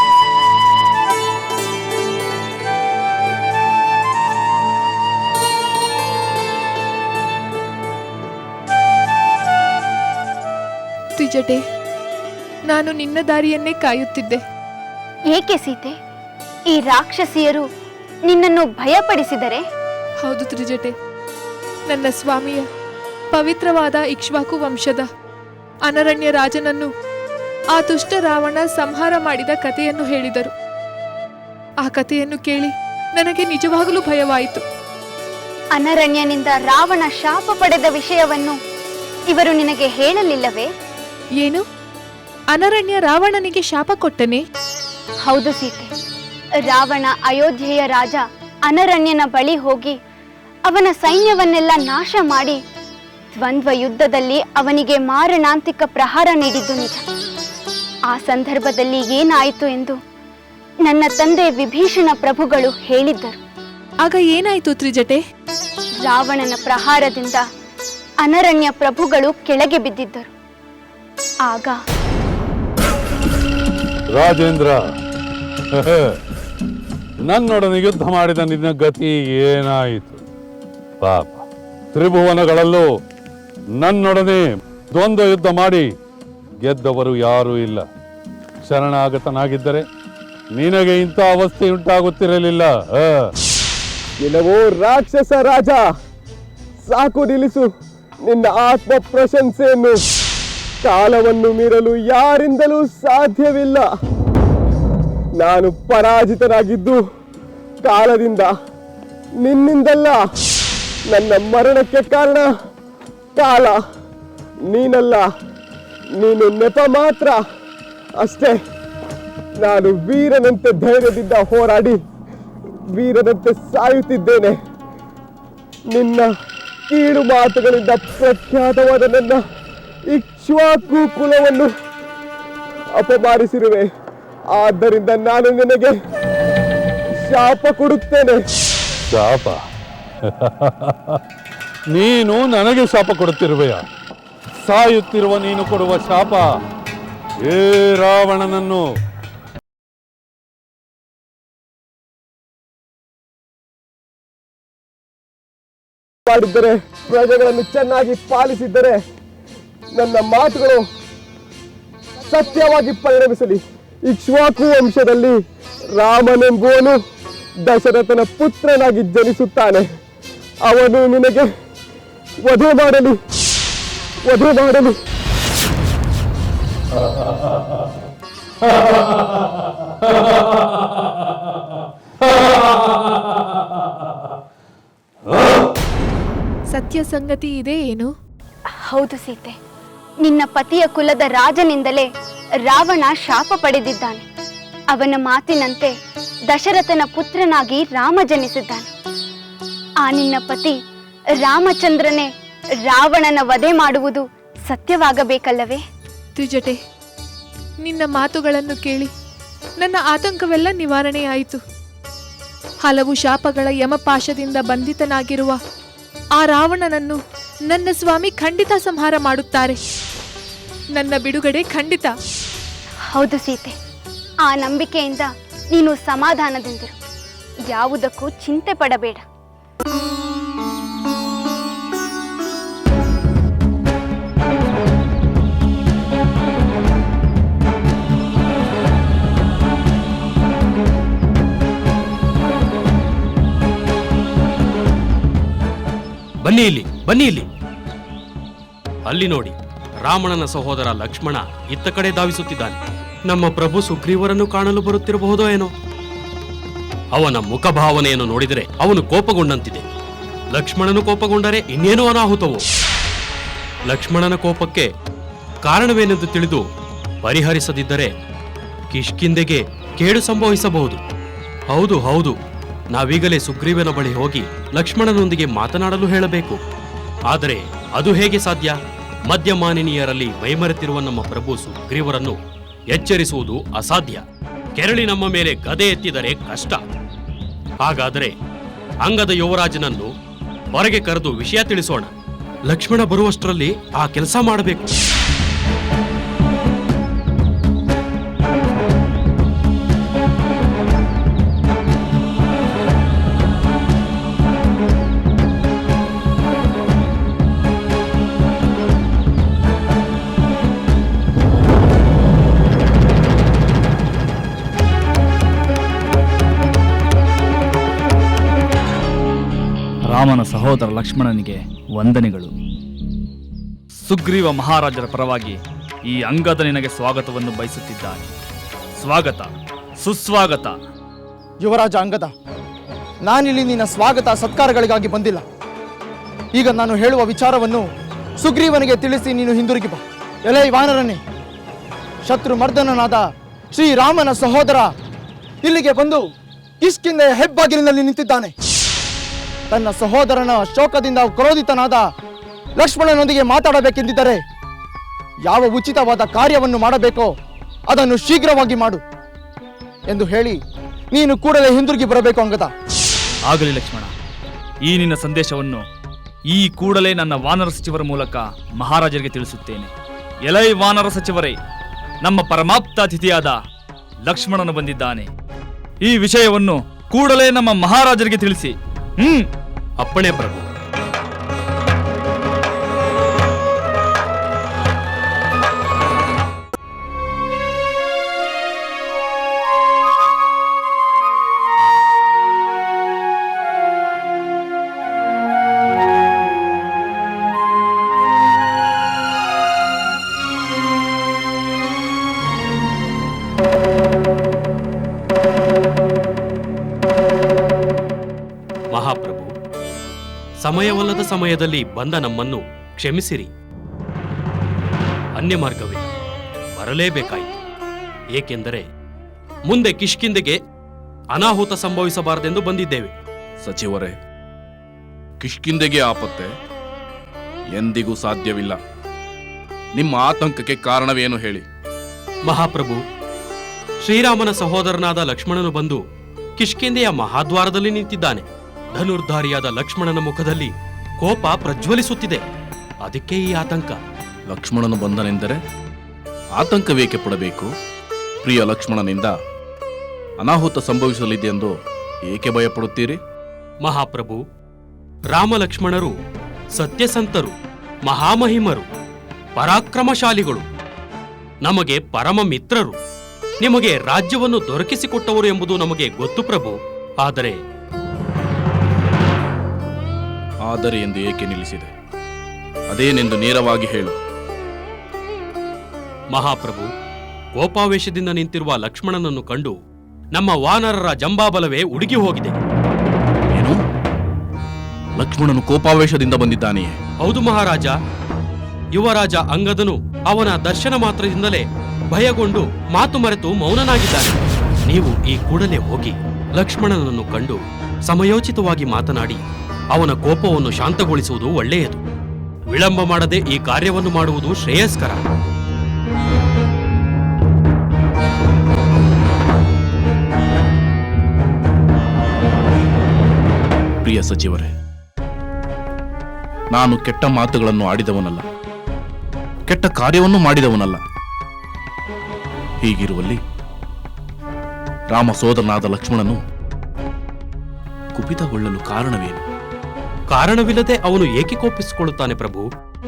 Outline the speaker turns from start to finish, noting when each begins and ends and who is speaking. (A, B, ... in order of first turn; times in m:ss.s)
0:11.2-0:11.6 A
0:12.7-0:14.4 A
0:15.3-0:16.0 B
0:16.7-0:17.6 B
0:18.3-0:19.6 B
0:20.2-0:20.9 A
0:21.9-0:22.6 A
0:23.3-0:25.0 A
0:25.9-0:26.9 A
0:27.8-0:30.5 A
0:31.8-0:34.6 A
0:35.7-0:38.6 B
0:39.3-0:40.7 B
0:42.5-0:44.4 A
0:45.2-0:45.9 B
0:46.6-0:50.0 B
0:50.6-0:52.6 B
0:53.3-0:57.0 B
0:58.1-1:00.0 B
1:00.9-1:03.4 B
1:04.0-1:05.2 A
1:06.0-1:07.4 B
1:08.2-1:10.3 B
1:11.4-1:11.8 B
1:14.2-1:14.8 C
1:17.3-1:20.2 C
1:21.0-1:21.3 C
1:21.9-1:22.8 C
1:23.8-1:25.8 C
1:26.6-1:27.8 C
1:28.7-1:29.8 C
1:30.6-1:33.1 C
1:34.2-1:35.8 D
1:36.8-1:37.7 D
1:38.2-1:40.0 D
1:40.8-1:43.8 D
1:45.4-1:47.0 D
1:47.8-1:48.5 D
1:49.4-1:50.2 D
1:51.1-1:52.5 D
1:53.4-1:53.8 D
1:54.7-1:55.2 D
1:56.2-1:57.4 D
1:58.2-1:58.6 D
1:59.6-2:02.0 D
2:03.0-2:04.6 D
2:05.9-2:06.3 D
2:06.9-2:09.4 D
2:10.1-2:11.7 D
2:13.0-2:13.9 D
2:14.5-2:15.9 D
2:17.2-2:18.4 D
2:19.1-2:19.5 C
2:21.9-2:23.8 C
2:24.6-2:26.4 C
2:27.5-2:28.8 C
2:36.3-2:39.0 D
2:39.9-2:40.8 D
2:42.3-2:45.4 D
2:46.0-2:47.0 D
2:47.7-2:49.8 D
2:50.6-2:51.5 D
2:52.4-2:53.2 D
2:54.2-2:55.0 D
3:06.7-3:08.1 A
3:08.8-3:09.6 B
3:10.2-3:12.1 B
3:12.6-3:14.2 B
3:14.9-3:15.9 B
3:16.5-3:18.9 B
3:20.0-3:20.8 B
3:21.4-3:22.3 B
3:22.9-3:25.8 B
3:26.4-3:26.8 A
3:27.8-3:29.1 A
3:29.8-3:31.6 A
3:32.8-3:35.6 A
3:36.4-3:37.2 A
3:37.7-3:39.8 A
3:41.0-3:42.1 A
3:43.1-3:43.7 B
3:44.4-3:46.9 B
3:47.7-3:49.2 B
4:06.4-4:07.5 E
4:09.1-4:09.5 E
4:10.1-4:12.8 E
4:13.3-4:15.7 E
4:17.1-4:19.8 E
4:20.5-4:22.6 E
4:23.9-4:24.9 E
4:25.6-4:26.6 E
4:27.2-4:28.1 E
4:28.9-4:31.0 E
4:31.7-4:32.4 E
4:32.9-4:36.6 E
4:37.3-4:38.8 E
4:39.3-4:42.4 E
4:42.9-4:44.2 E
4:44.8-4:46.8 E
4:47.8-4:48.3 E
4:49.0-4:50.1 E
4:50.8-4:52.1 E
4:52.7-4:54.9 E
5:20.1-5:22.5 F
5:24.0-5:28.2 F
5:29.0-5:30.8 F
5:31.6-5:32.3 G
5:33.2-5:35.4 G
5:36.5-5:37.8 G
5:38.4-5:41.2 G
5:42.2-5:44.9 G
5:45.6-5:46.2 G
5:46.8-5:48.5 G
5:49.7-5:52.0 G
5:52.8-5:54.4 G
5:55.5-5:57.3 G
5:57.9-5:59.0 G
6:00.1-6:00.6 G
6:01.1-6:02.7 G
6:03.5-6:04.1 F
6:04.9-6:05.8 F
6:06.5-6:09.9 F
6:10.5-6:11.6 F
6:12.2-6:13.6 F
6:14.2-6:15.3 F
6:16.0-6:19.5 F
6:20.0-6:20.7 E
6:48.9-6:49.5 E
6:50.6-6:53.5 E
6:55.4-6:56.1 E
6:56.8-6:57.5 E
6:58.4-6:58.8 E
6:59.7-7:00.6 E
7:01.3-7:03.1 E
7:03.6-7:04.2 H
7:05.4-7:06.5 H
7:07.8-7:08.8 H
7:10.0-7:11.6 H
7:12.5-7:13.0 E
7:14.0-7:16.0 E
7:16.6-7:18.4 E
7:18.9-7:22.4 E
7:23.0-7:24.0 E
7:24.5-7:25.6 H
7:26.6-7:27.7 H
7:28.4-7:29.3 H
7:30.4-7:31.7 H
7:32.3-7:33.2 H
7:33.8-7:34.4 E
7:35.3-7:36.1 E
7:36.8-7:37.5 E
7:38.1-7:38.9 E
7:39.6-7:40.6 E
7:41.6-7:43.0 E
7:43.6-7:47.6 E
7:50.7-7:51.9 H
7:52.9-7:54.2 H
7:56.3-7:56.9 E
7:57.6-7:59.7 E
8:00.3-8:02.6 E
8:05.2-8:07.0 H
8:07.2-8:07.9 E
8:08.9-8:17.6 E
8:18.1-8:19.4 E
8:19.9-8:22.0 E
8:22.7-8:25.2 E
8:34.0-8:34.7 H
8:36.7-8:38.4 H
8:39.7-8:41.0 H
8:42.8-8:43.4 H
8:45.1-8:46.4 H
8:48.2-8:49.4 H
8:50.3-8:52.6 E